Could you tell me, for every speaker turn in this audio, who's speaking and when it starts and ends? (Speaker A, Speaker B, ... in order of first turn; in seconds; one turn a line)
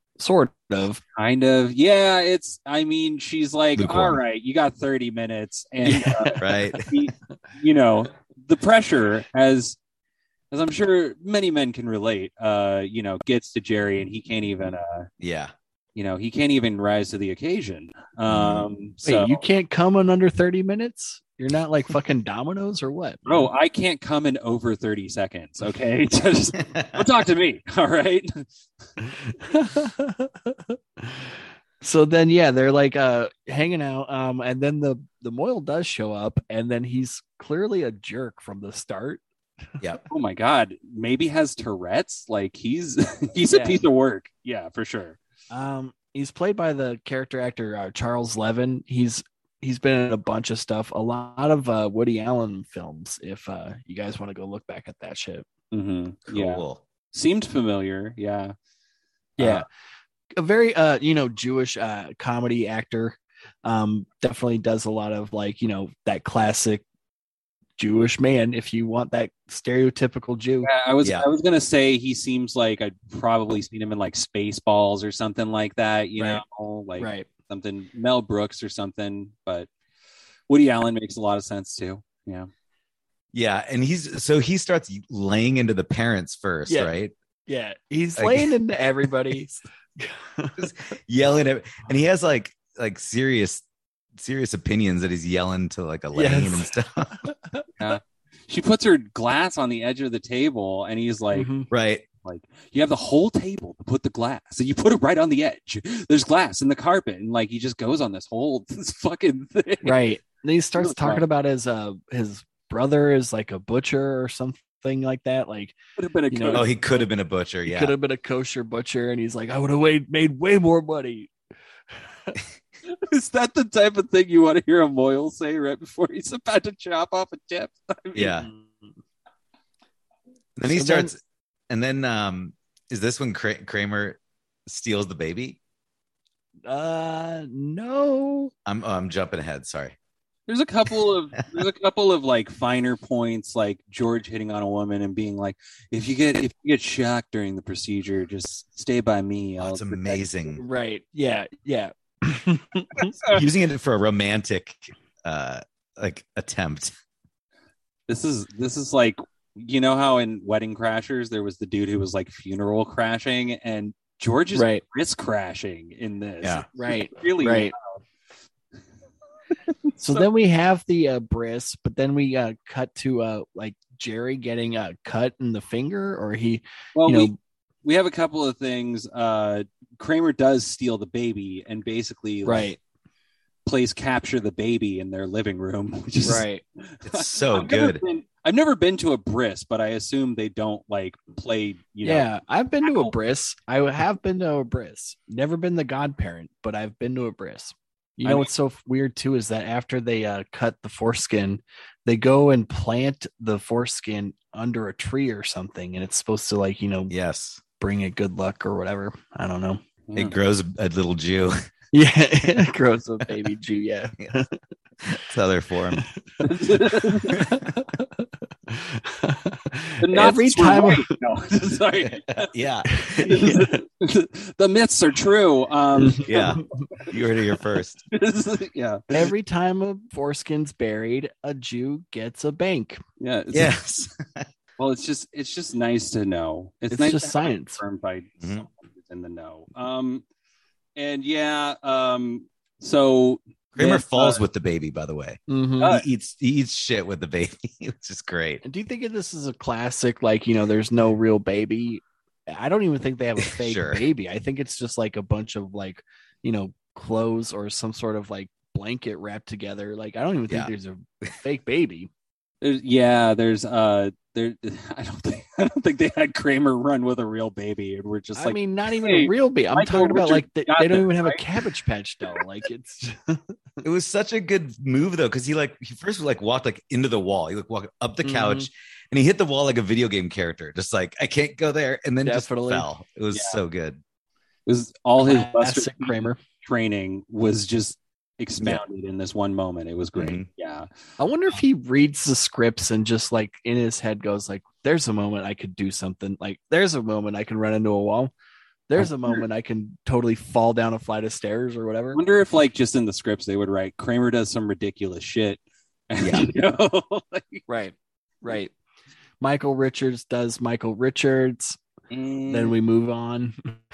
Speaker A: 0.2-1.0
Speaker B: 1.2-9.8
Speaker C: 3.8-4.2
Speaker A: 5.9-6.4
Speaker C: 6.4-6.9
Speaker B: 10.5-15.1
Speaker C: 15.2-15.5
Speaker B: 15.9-19.4
Speaker C: 18.3-18.7
Speaker A: 19.0-23.2
Speaker B: 23.2-28.5
Speaker C: 26.7-27.0
Speaker A: 29.0-39.2
Speaker B: 40.1-45.2
Speaker A: 43.5-43.8
Speaker A: 45.5-55.5
Speaker B: 55.7-58.5
Speaker C: 56.3-56.8
Speaker B: 59.4-59.6
Speaker A: 59.4-59.6
Speaker A: 60.4-66.8
Speaker A: 67.8-70.7
Speaker B: 70.6-79.7
Speaker A: 76.2-76.4
Speaker A: 77.0-77.3
Speaker B: 80.5-82.5
Speaker C: 83.3-87.1
Speaker A: 87.5-90.7
Speaker C: 88.2-88.5
Speaker C: 90.6-93.6
Speaker C: 94.2-97.1
Speaker A: 96.1-97.9
Speaker B: 97.8-101.5
Speaker A: 101.3-101.7
Speaker C: 101.7-102.0
Speaker B: 102.2-110.0
Speaker A: 109.8-115.8
Speaker B: 110.8-111.2
Speaker B: 116.0-116.7
Speaker A: 116.3-116.7
Speaker C: 116.5-117.9
Speaker A: 117.6-121.3
Speaker B: 122.9-128.4
Speaker C: 128.1-128.5
Speaker A: 128.4-128.9
Speaker C: 130.6-131.2
Speaker A: 130.7-131.1
Speaker C: 131.7-135.6
Speaker A: 136.7-138.5
Speaker C: 138.7-139.9
Speaker B: 140.5-150.2
Speaker C: 149.6-150.6
Speaker A: 150.6-153.1
Speaker B: 152.9-153.4
Speaker C: 153.3-156.9
Speaker B: 158.1-168.0
Speaker A: 164.5-164.8
Speaker A: 166.8-167.7
Speaker A: 170.0-177.3
Speaker B: 176.9-177.3
Speaker B: 177.8-182.7
Speaker A: 182.4-182.8
Speaker B: 183.7-192.3
Speaker A: 186.2-186.6
Speaker C: 187.0-188.0
Speaker A: 192.0-207.1
Speaker B: 192.8-193.1
Speaker B: 198.2-198.5
Speaker C: 207.1-207.6
Speaker A: 207.8-209.8
Speaker B: 210.1-210.3
Speaker C: 210.1-211.5
Speaker A: 211.9-214.5
Speaker C: 215.0-216.0
Speaker B: 216.4-217.4
Speaker A: 217.1-221.1
Speaker C: 217.3-217.7
Speaker B: 220.0-222.5
Speaker C: 222.3-223.3
Speaker A: 222.9-223.8
Speaker B: 223.1-227.1
Speaker A: 226.0-226.6
Speaker C: 226.2-228.0
Speaker B: 228.1-229.1
Speaker A: 229.1-233.0
Speaker B: 233.2-233.8
Speaker C: 233.5-234.5
Speaker B: 234.8-240.2
Speaker A: 236.9-237.8
Speaker C: 238.4-238.7
Speaker B: 240.9-244.4
Speaker C: 243.8-248.6
Speaker A: 245.5-245.9
Speaker A: 248.6-262.1
Speaker C: 253.5-254.1
Speaker B: 262.6-271.4
Speaker A: 268.4-273.5
Speaker C: 273.8-284.0
Speaker A: 278.2-278.7
Speaker A: 282.2-282.9
Speaker B: 283.3-283.6
Speaker B: 284.6-290.9
Speaker A: 285.2-286.4
Speaker C: 290.1-290.4
Speaker A: 291.2-298.3
Speaker A: 298.9-302.2
Speaker B: 302.1-307.6
Speaker C: 306.2-306.4
Speaker A: 307.7-308.7
Speaker A: 309.4-311.8
Speaker B: 312.1-312.7
Speaker A: 312.5-313.8